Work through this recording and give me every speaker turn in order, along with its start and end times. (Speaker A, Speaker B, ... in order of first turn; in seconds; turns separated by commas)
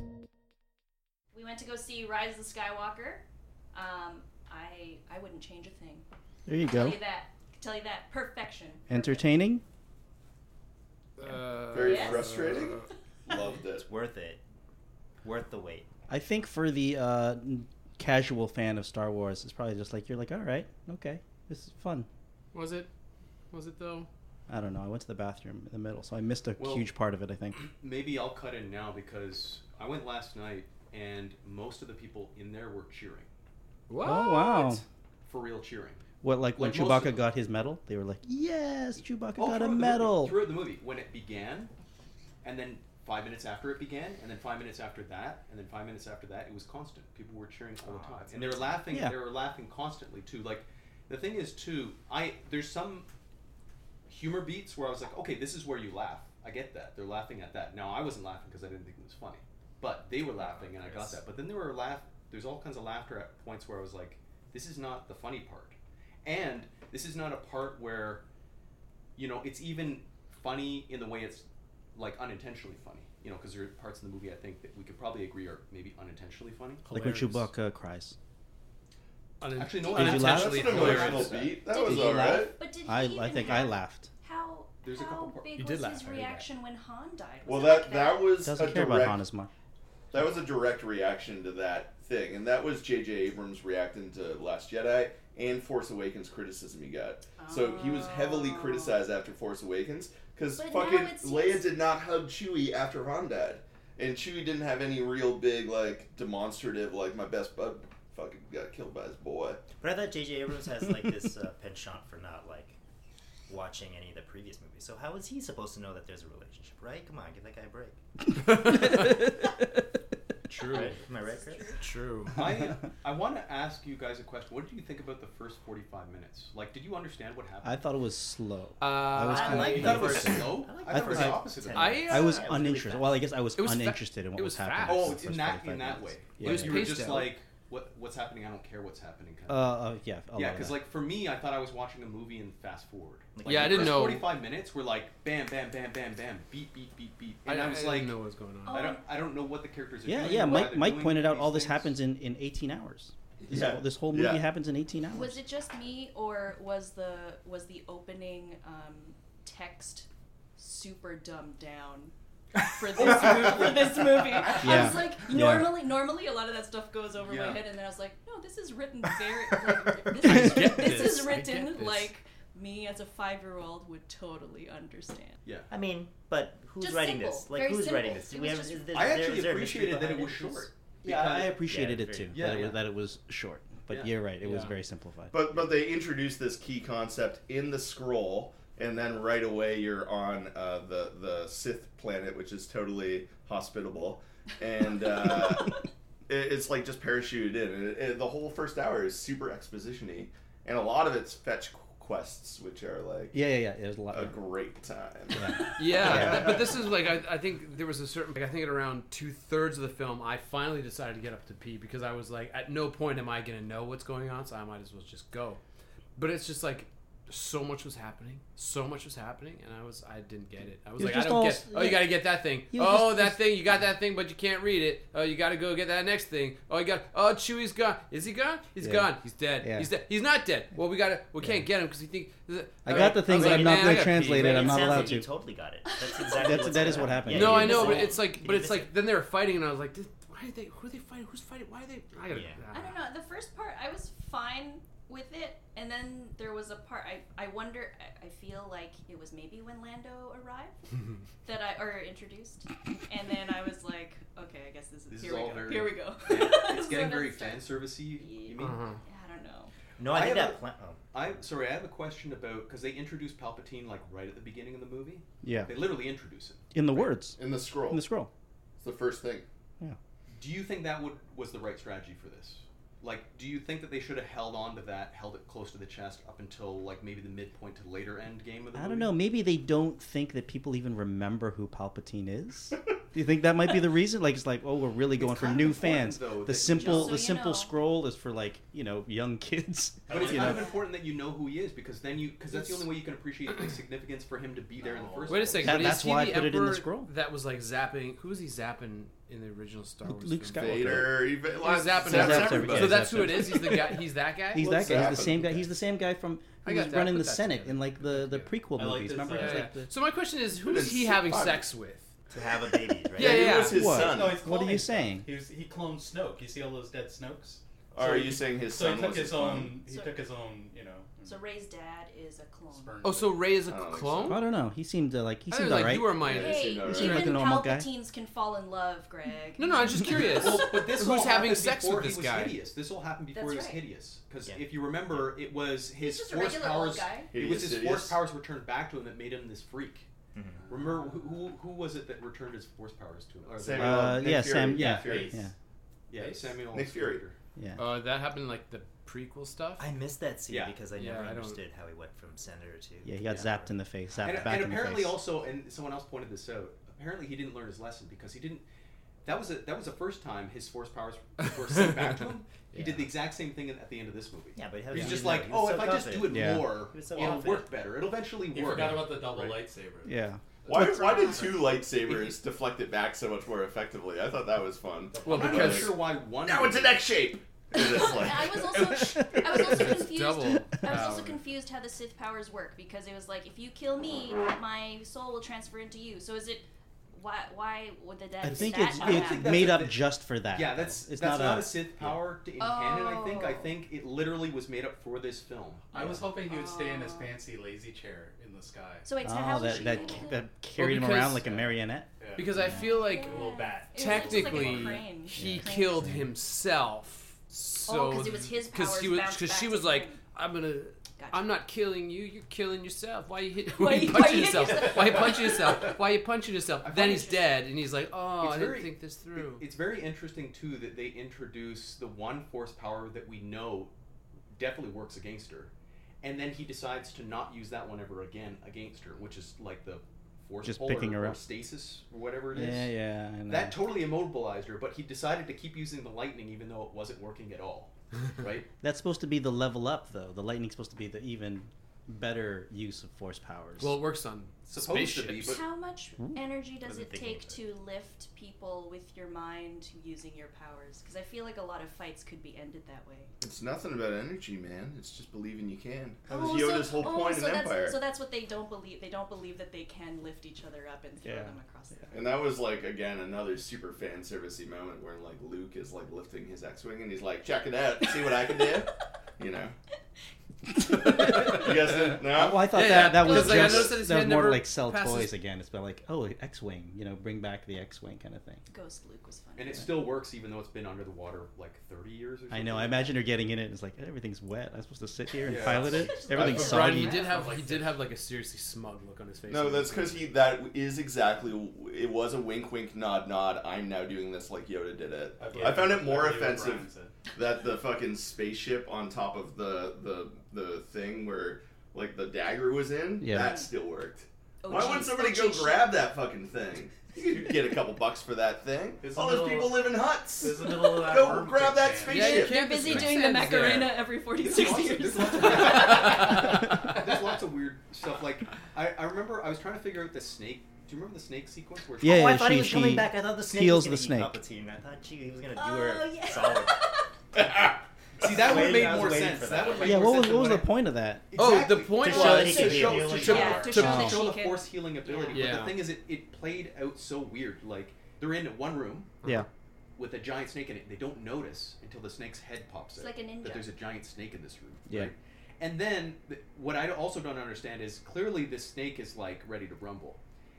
Speaker A: 1.3-6.1, Speaker B: 6.5-7.0, Speaker A: 6.7-9.2, Speaker B: 8.9-9.6, Speaker C: 11.2-12.9, Speaker D: 11.7-13.9, Speaker A: 11.8-12.3, Speaker E: 13.8-14.4, Speaker E: 15.2-15.9, Speaker B: 16.1-22.1, Speaker C: 22.5-22.9, Speaker C: 23.5-24.1, Speaker B: 24.5-27.6, Speaker F: 26.6-26.9, Speaker F: 27.5-33.3, Speaker C: 33.9-34.8, Speaker B: 34.0-34.8, Speaker F: 35.3-36.0, Speaker B: 36.2-40.4, Speaker F: 36.5-37.2, Speaker F: 39.4-41.7, Speaker F: 42.4-53.1, Speaker E: 47.8-48.9, Speaker B: 48.9-49.2, Speaker F: 54.1-68.2, Speaker E: 60.4-61.2, Speaker F: 69.2-76.8, Speaker C: 76.9-77.4, Speaker B: 76.9-78.2, Speaker C: 79.4-81.3, Speaker F: 79.6-81.6, Speaker B: 80.0-81.2, Speaker D: 80.1-82.6, Speaker A: 81.7-88.3, Speaker B: 81.7-84.1, Speaker F: 84.8-85.5, Speaker C: 85.6-86.5, Speaker D: 87.4-89.2, Speaker B: 88.4-89.5, Speaker D: 90.1-109.7, Speaker A: 97.4-99.0, Speaker A: 100.5-101.7, Speaker E: 109.8-112.8, Speaker E: 113.5-118.0, Speaker B: 118.4-119.8, Speaker C: 118.5-119.2, Speaker C: 120.5-121.0, Speaker E: 120.6-121.8, Speaker C: 121.8-122.4, Speaker F: 122.3-127.8, Speaker B: 127.6-137.1, Speaker C: 128.8-130.5, Speaker E: 129.2-133.1, Speaker F: 129.3-132.5, Speaker C: 131.7-132.5, Speaker C: 133.6-135.2, Speaker F: 134.8-139.7, Speaker C: 136.4-137.4, Speaker B: 139.5-140.8, Speaker F: 140.3-152.0, Speaker E: 143.3-144.2, Speaker C: 143.4-144.3, Speaker C: 147.5-149.0, Speaker A: 148.7-149.0, Speaker B: 150.1-155.4, Speaker D: 153.4-154.4, Speaker A: 155.1-175.4, Speaker F: 162.9-164.9, Speaker B: 164.6-165.8, Speaker F: 167.3-167.6, Speaker C: 170.2-172.1, Speaker B: 170.3-171.0, Speaker F: 175.4-175.7, Speaker E: 175.7-180.7, Speaker A: 176.8-179.2, Speaker F: 178.9-181.6, Speaker B: 181.0-185.6, Speaker E: 181.6-182.5, Speaker F: 182.3-182.8, Speaker C: 184.4-184.7, Speaker D: 185.3-203.4, Speaker B: 203.3-204.4, Speaker D: 204.1-206.9, Speaker B: 205.3-206.6, Speaker C: 205.8-215.6, Speaker C: 216.2-235.2, Speaker B: 221.0-223.4, Speaker B: 228.8-229.9, Speaker B: 231.4-231.7, Speaker B: 232.8-235.3, Speaker E: 232.9-238.9, Speaker A: 235.8-236.7, Speaker B: 236.4-238.2, Speaker C: 237.2-243.0, Speaker A: 237.5-238.1, Speaker E: 242.2-242.6, Speaker A: 242.7-250.8, Speaker A: 251.4-259.7, Speaker F: 255.1-258.9, Speaker C: 258.6-259.0, Speaker E: 260.0-261.0, Speaker F: 260.0-260.6, Speaker F: 261.1-267.1, Speaker B: 265.4-265.9, Speaker B: 266.7-268.3, Speaker D: 267.4-268.0, Speaker D: 268.8-269.5, Speaker F: 270.4-279.1, Speaker B: 278.7-290.6, Speaker F: 285.1-287.2, Speaker A: 286.7-287.7, Speaker G: 290.1-290.7, Speaker F: 290.1-296.0, Speaker G: 294.8-295.9, Speaker C: 295.3-305.3, Speaker B: 295.6-297.1, Speaker B: 300.1-301.2, Speaker D: 300.6-303.8, Speaker B: 302.1-303.8, Speaker B: 304.5-309.9, Speaker D: 304.6-305.7, Speaker C: 306.6-308.6, Speaker G: 308.7-309.8, Speaker C: 309.3-312.1, Speaker D: 310.5-311.7, Speaker E: 312.3-313.6, Speaker C: 313.1-313.8, Speaker D: 313.2-314.4, Speaker B: 313.7-315.3, Speaker G: 313.8-321.4, Speaker D: 317.9-319.8, Speaker A: 319.9-320.1, Speaker A: 321.2-323.0, Speaker G: 322.7-323.6, Speaker C: 323.0-324.4, Speaker D: 323.6-324.4, Speaker B: 324.3-326.3, Speaker C: 325.5-327.2, Speaker D: 326.2-327.4, Speaker A: 326.2-330.5, Speaker B: 326.8-327.9, Speaker C: 329.6-332.6, Speaker F: 330.1-340.1, Speaker A: 333.3-333.8, Speaker A: 336.0-337.3, Speaker D: 337.3-338.2, Speaker E: 340.3-340.6, Speaker G: 340.6-341.2, Speaker F: 340.7-345.4, Speaker D: 343.6-345.4, Speaker B: 343.7-345.5, Speaker F: 346.1-347.4, Speaker D: 346.7-347.2, Speaker B: 347.6-347.9, Speaker C: 347.8-349.9, Speaker E: 349.8-353.7, Speaker F: 350.5-350.8, Speaker C: 350.9-351.6, Speaker B: 353.0-355.2, Speaker F: 354.2-358.6, Speaker F: 359.2-369.6, Speaker E: 364.6-367.6, Speaker B: 366.3-366.8, Speaker G: 367.1-367.6, Speaker G: 368.5-371.6, Speaker B: 370.1-370.4, Speaker D: 370.7-379.9, Speaker A: 370.7-371.6, Speaker F: 372.1-372.4, Speaker G: 375.1-375.7, Speaker C: 375.2-375.9, Speaker F: 375.3-377.0, Speaker A: 377.7-389.5, Speaker C: 379.5-381.4, Speaker B: 388.4-392.2, Speaker F: 388.5-396.2, Speaker A: 392.6-393.8, Speaker G: 395.9-399.8, Speaker A: 396.4-397.3, Speaker A: 399.1-400.4, Speaker B: 399.2-402.9, Speaker C: 400.8-401.7, Speaker G: 402.2-405.0, Speaker C: 402.4-419.6, Speaker A: 402.7-406.1, Speaker B: 405.3-406.3, Speaker A: 407.9-410.2, Speaker A: 411.2-411.6, Speaker A: 413.7-415.9, Speaker F: 416.8-417.5, Speaker F: 418.4-423.9, Speaker F: 424.6-432.9, Speaker B: 430.6-431.4, Speaker B: 432.5-433.8, Speaker F: 433.5-438.7, Speaker B: 438.8-444.0, Speaker C: 443.8-445.6, Speaker F: 444.7-445.6, Speaker A: 445.4-453.3, Speaker E: 446.8-447.6, Speaker D: 453.4-458.0, Speaker A: 456.3-462.3, Speaker B: 461.2-461.6, Speaker D: 462.1-469.8, Speaker D: 471.0-473.9, Speaker B: 471.0-478.6, Speaker C: 472.6-475.3, Speaker A: 473.3-473.6, Speaker A: 478.7-479.9, Speaker F: 479.6-483.1, Speaker B: 482.5-487.3, Speaker F: 485.4-486.7, Speaker G: 485.6-488.0, Speaker A: 486.0-487.7, Speaker C: 486.3-490.3, Speaker D: 489.5-512.6, Speaker G: 495.4-497.2, Speaker B: 503.2-503.6, Speaker A: 503.4-503.7, Speaker A: 504.6-505.9, Speaker G: 507.2-507.7, Speaker G: 509.0-512.4, Speaker C: 512.1-514.1, Speaker A: 512.2-516.5, Speaker F: 514.4-522.4, Speaker C: 515.6-516.8, Speaker B: 522.0-524.3, Speaker E: 522.0-526.9, Speaker A: 525.5-527.1, Speaker F: 528.2-530.7, Speaker E: 528.2-530.3, Speaker G: 528.3-529.5, Speaker B: 529.8-531.3, Speaker F: 531.3-539.2, Speaker C: 531.3-534.1, Speaker E: 532.0-533.8, Speaker G: 532.8-534.0, Speaker A: 533.2-535.7, Speaker B: 533.8-534.2, Speaker C: 535.3-535.8, Speaker F: 540.0-550.2, Speaker A: 543.0-543.7